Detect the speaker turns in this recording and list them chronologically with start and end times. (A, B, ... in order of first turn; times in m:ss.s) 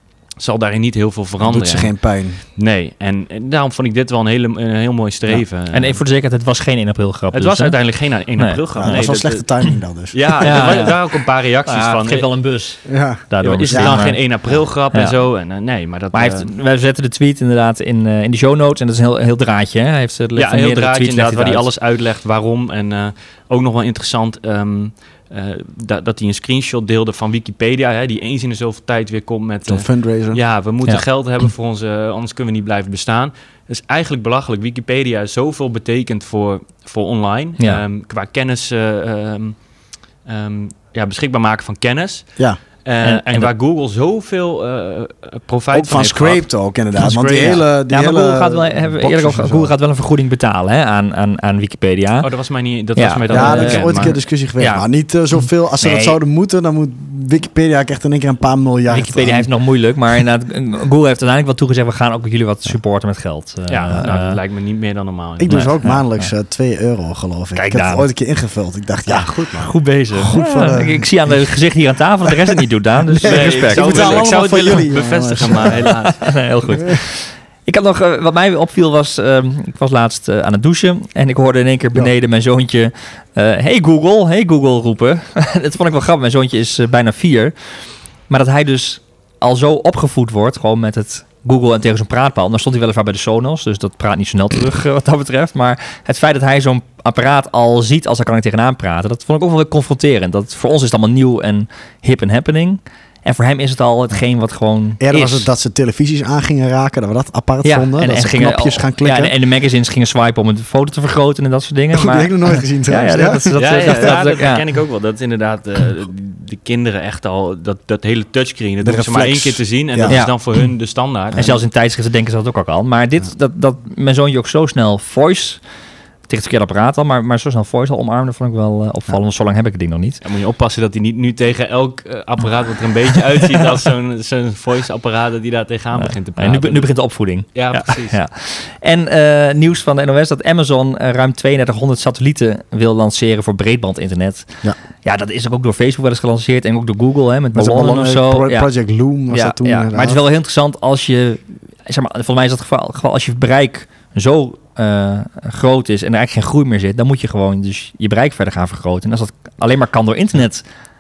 0:00.4-0:06.0 A
0:01.4-0:02.4 B
0:05.3-0:09.7 C
0:07.3-0:12.5 A
0:08.8-0:10.8 B
0:10.4-0:15.2 C
0:12.9-0:14.1 B
0:13.4-0:16.5 A
0:16.1-0:21.7 C
0:20.4-0:39.6 A
0:29.7-0:30.4 B
0:40.2-0:47.6 A
0:43.0-0:43.5 C
0:45.7-0:49.7 B
0:47.9-0:52.3 C
0:52.2-0:54.1 A
0:52.9-0:54.9 C
0:53.3-0:59.5 B
0:55.8-0:56.2 C
0:58.9-1:04.4 C
1:03.7-1:05.8 A
1:05.4-1:09.3 B
1:05.5-1:06.3 C
1:07.5-1:08.1 C
1:09.1-1:09.8 A
1:09.6-1:14.8 C
1:10.1-1:11.5 B
1:12.2-1:12.6 B
1:13.1-1:16.2 B
1:13.2-1:16.6 A
1:15.8-1:45.4 C
1:45.0-1:49.3 B
1:47.6-1:54.6 C
1:51.9-1:54.2 B
1:53.6-2:01.4 A
1:58.8-2:00.2 B
2:00.1-2:00.8 C
2:01.3-2:01.6 B
2:01.3-2:05.6 C
2:06.3-2:10.2 C
2:10.2-2:18.2 A
2:16.0-2:28.7 C
2:27.5-2:30.2 B
2:29.3-2:40.6 C